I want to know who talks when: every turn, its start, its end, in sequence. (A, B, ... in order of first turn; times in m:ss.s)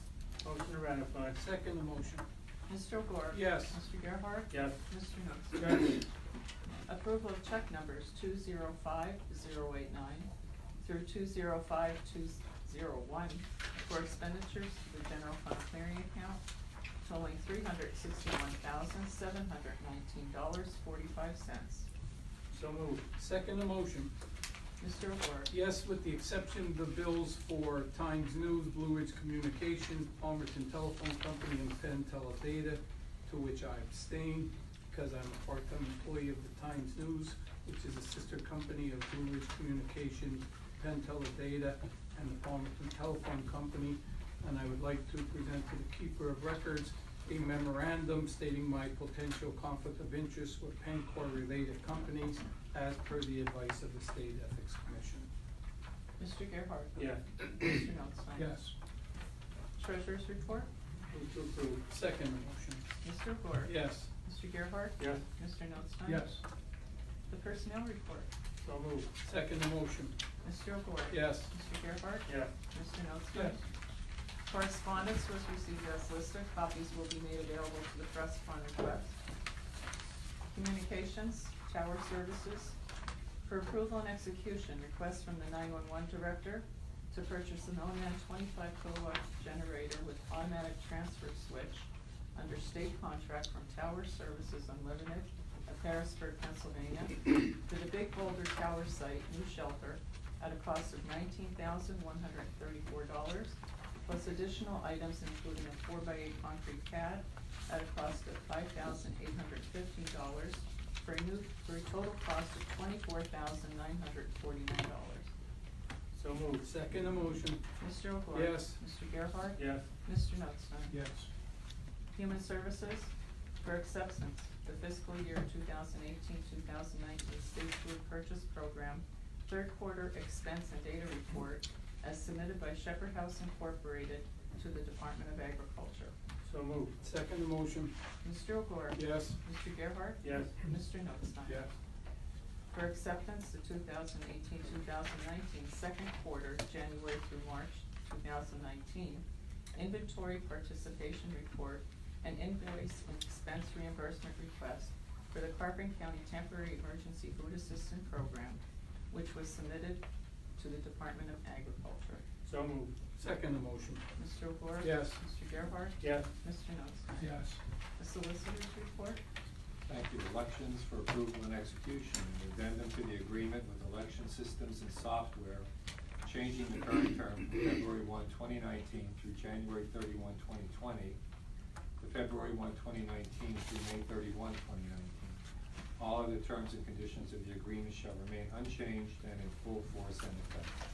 0:00.4-0:01.4 A
0:01.4-0:02.2 B
0:02.7-0:05.8 C
0:03.3-0:03.8 B
0:04.5-0:04.8 A
0:05.6-0:06.0 A
0:06.9-0:16.4 C
0:17.0-0:21.9 C
0:22.5-0:23.0 A
0:23.2-0:24.1 B
0:24.8-0:25.5 C
0:25.5-0:55.3 B
0:56.2-0:58.6 C
0:57.0-0:57.2 A
0:58.4-0:58.7 B
0:59.8-1:00.7 C
1:01.1-1:01.8 A
1:01.9-1:02.9 B
1:03.0-1:06.4 C
1:03.6-1:04.1 B
1:05.0-1:05.2 A
1:06.0-1:06.4 B
1:07.3-1:08.3 C
1:08.6-1:09.1 A
1:09.2-1:10.1 B
1:10.4-1:13.7 C
1:11.1-1:11.5 B
1:12.3-1:12.5 A
1:14.5-1:19.2 C
1:20.5-1:22.8 C
1:23.4-1:55.3 C
1:56.1-1:56.6 A
1:56.6-1:57.6 B
1:57.8-2:01.0 C
1:58.3-1:58.8 B
1:59.6-1:59.8 A
2:00.9-2:01.3 B
2:02.2-2:16.1 C
2:16.4-2:16.9 A
2:17.0-2:17.9 B
2:18.2-2:21.7 C
2:19.0-2:19.4 B
2:20.2-2:20.6 A
2:22.7-2:38.6 C
2:39.1-2:40.0 C
2:40.6-2:42.2 C
2:42.4-2:42.9 A
2:43.2-2:44.0 B
2:44.2-2:47.2 C
2:44.8-2:45.2 B
2:46.0-2:46.3 A
2:47.2-2:47.6 B
2:48.0-2:49.2 C
2:49.9-2:55.7 D
2:56.2-3:01.2 D
3:02.0-3:05.4 D
3:06.0-3:10.7 D